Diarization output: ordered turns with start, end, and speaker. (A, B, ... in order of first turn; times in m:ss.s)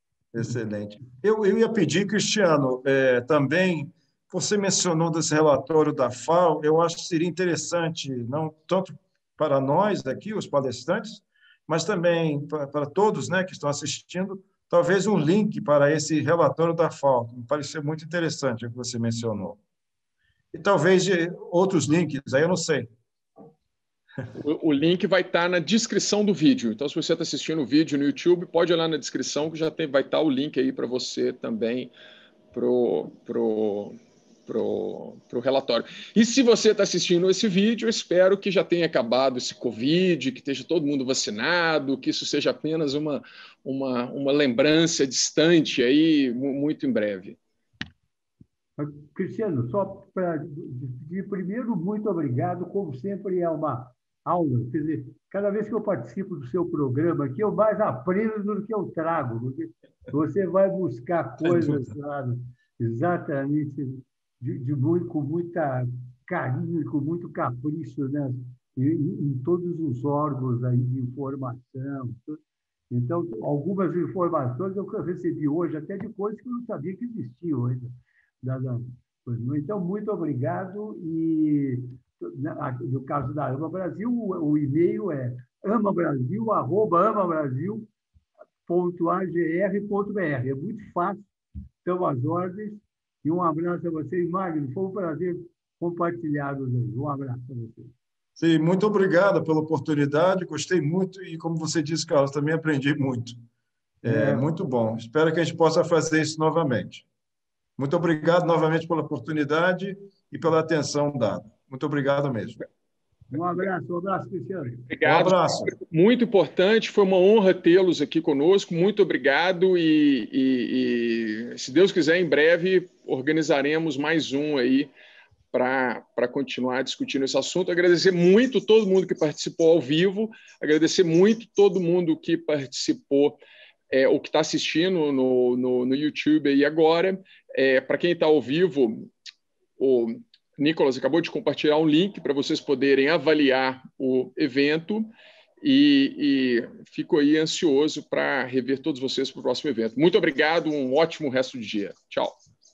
0:00.3-0:19.6 A
0:20.5-0:22.9 A
0:24.3-0:31.9 B
0:32.5-0:47.4 B
0:48.8-1:27.9 C
1:01.5-1:01.7 A
1:28.7-1:31.2 C
1:31.8-1:37.9 C
1:38.4-1:43.4 A
1:44.0-1:44.4 C
1:44.0-1:47.0 A
1:47.8-1:52.6 A
1:53.3-1:54.8 C
1:54.9-2:04.9 B
1:55.0-1:55.7 A
2:05.5-2:13.4 B
2:13.9-2:19.1 B
2:19.8-2:32.4 B